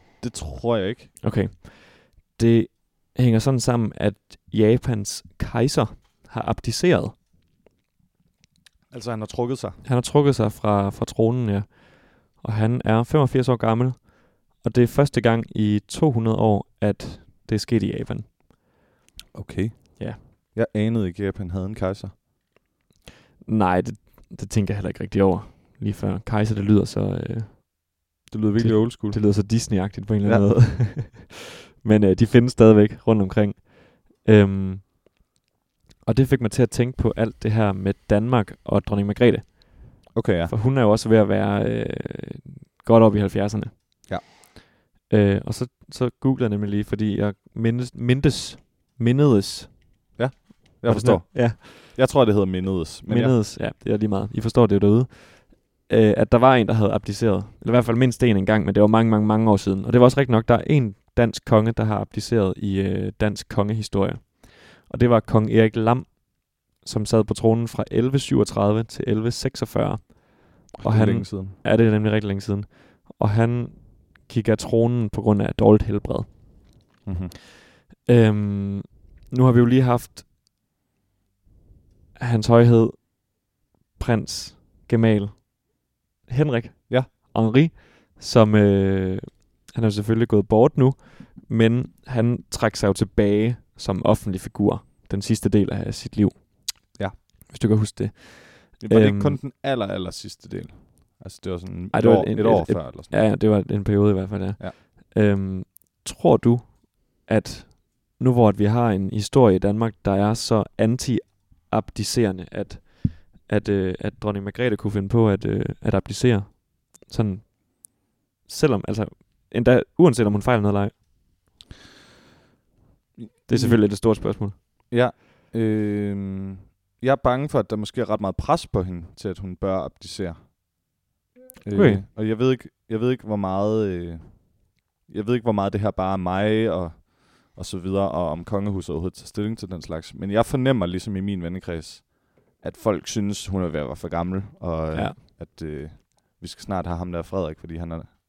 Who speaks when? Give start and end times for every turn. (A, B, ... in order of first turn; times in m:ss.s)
0:00.2-0:01.1 A
0:01.2-0:07.1 B
0:08.9-0:09.8 A
0:09.8-0:18.3 B
0:19.3-0:22.2 A
0:23.4-0:27.9 B
0:28.3-0:30.5 A
0:28.6-0:34.9 B
0:36.0-0:44.2 B
0:40.1-0:40.5 A
0:45.1-0:50.2 B
0:50.2-0:53.3 A
0:50.8-0:51.7 B
0:53.0-1:16.4 B
1:10.8-1:11.6 A
1:17.0-1:17.3 A
1:18.0-1:20.2 B
1:22.2-1:39.4 B
1:38.8-1:43.2 A
1:41.9-2:01.0 B
2:03.2-2:04.2 A
2:03.5-2:04.6 B
2:04.9-2:11.0 A
2:11.6-2:28.1 A
2:11.7-2:12.0 B
2:24.9-2:25.2 B